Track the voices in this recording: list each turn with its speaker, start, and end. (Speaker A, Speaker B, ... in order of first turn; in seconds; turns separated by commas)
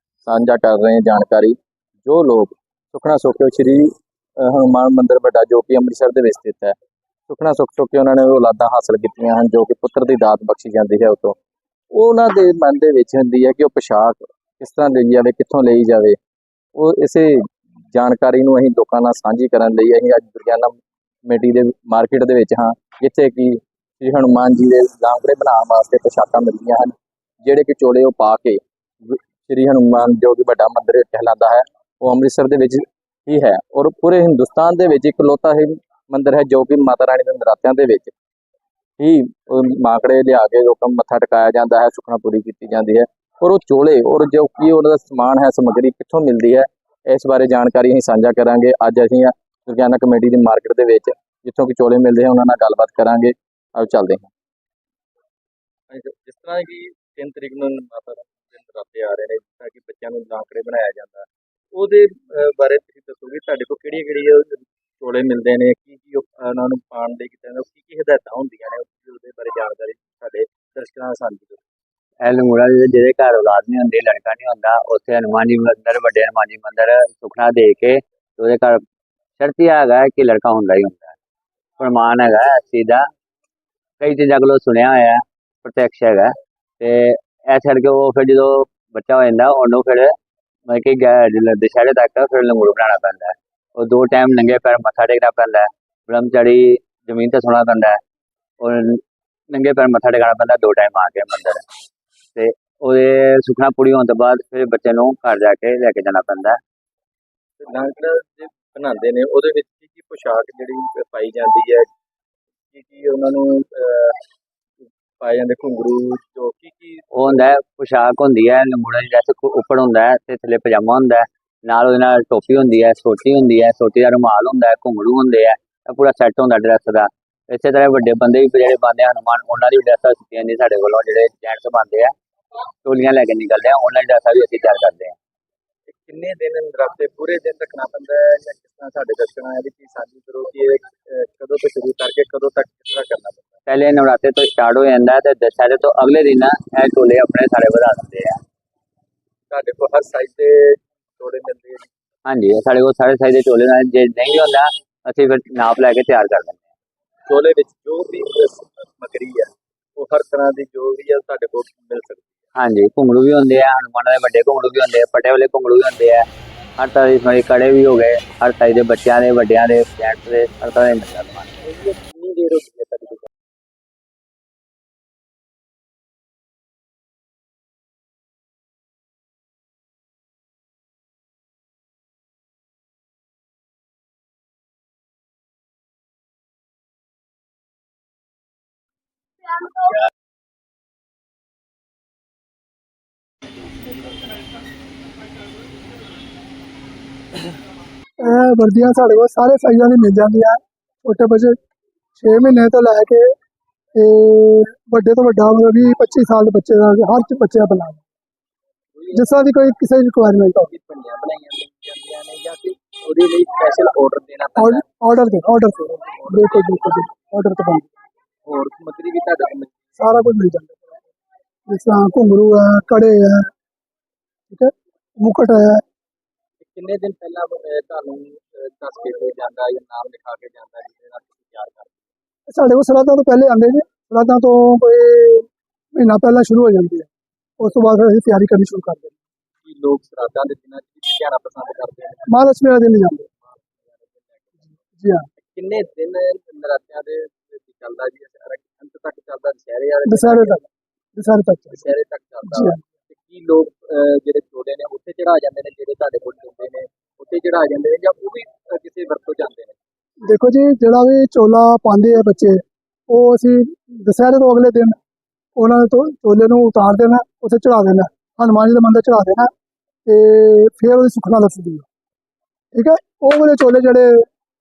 Speaker A: 0.3-1.5, Speaker A: 2.0-3.8, Speaker A: 4.4-6.7, Speaker A: 7.3-11.3, Speaker A: 11.9-16.1, Speaker A: 16.8-17.4, Speaker A: 17.9-20.7, Speaker A: 21.3-26.9, Speaker A: 27.4-28.6, Speaker A: 29.5-38.1, Speaker A: 39.0-53.2, Speaker A: 53.8-54.1, Speaker A: 55.9-71.6, Speaker B: 72.2-78.8, Speaker B: 79.4-81.1, Speaker B: 81.8-83.0, Speaker B: 84.0-90.1, Speaker B: 90.7-98.0, Speaker B: 98.6-101.6, Speaker B: 102.3-106.6, Speaker A: 107.6-111.9, Speaker A: 112.7-114.2, Speaker A: 115.2-117.4, Speaker B: 117.1-132.1, Speaker B: 132.8-135.1, Speaker A: 135.9-143.6, Speaker B: 143.7-148.4, Speaker A: 149.5-151.8, Speaker B: 152.2-156.6, Speaker A: 157.3-162.3, Speaker B: 162.5-166.2, Speaker B: 166.8-171.6, Speaker C: 198.2-201.6, Speaker C: 202.2-203.3, Speaker C: 203.9-208.0, Speaker A: 208.9-209.3, Speaker C: 209.1-210.7, Speaker A: 210.7-214.8, Speaker C: 214.6-217.9, Speaker A: 216.3-216.6, Speaker A: 218.5-219.7, Speaker C: 220.0-220.9, Speaker C: 221.7-223.5, Speaker C: 224.5-225.8, Speaker A: 226.6-231.9, Speaker C: 232.5-239.1, Speaker A: 239.6-242.3, Speaker C: 242.3-243.3, Speaker A: 243.5-244.7, Speaker C: 245.0-245.2, Speaker A: 245.4-250.6, Speaker C: 250.0-250.6, Speaker C: 251.2-251.8, Speaker A: 251.7-259.7, Speaker C: 252.4-252.8, Speaker C: 260.2-265.0, Speaker C: 265.6-269.5, Speaker C: 270.1-271.8, Speaker C: 272.7-274.2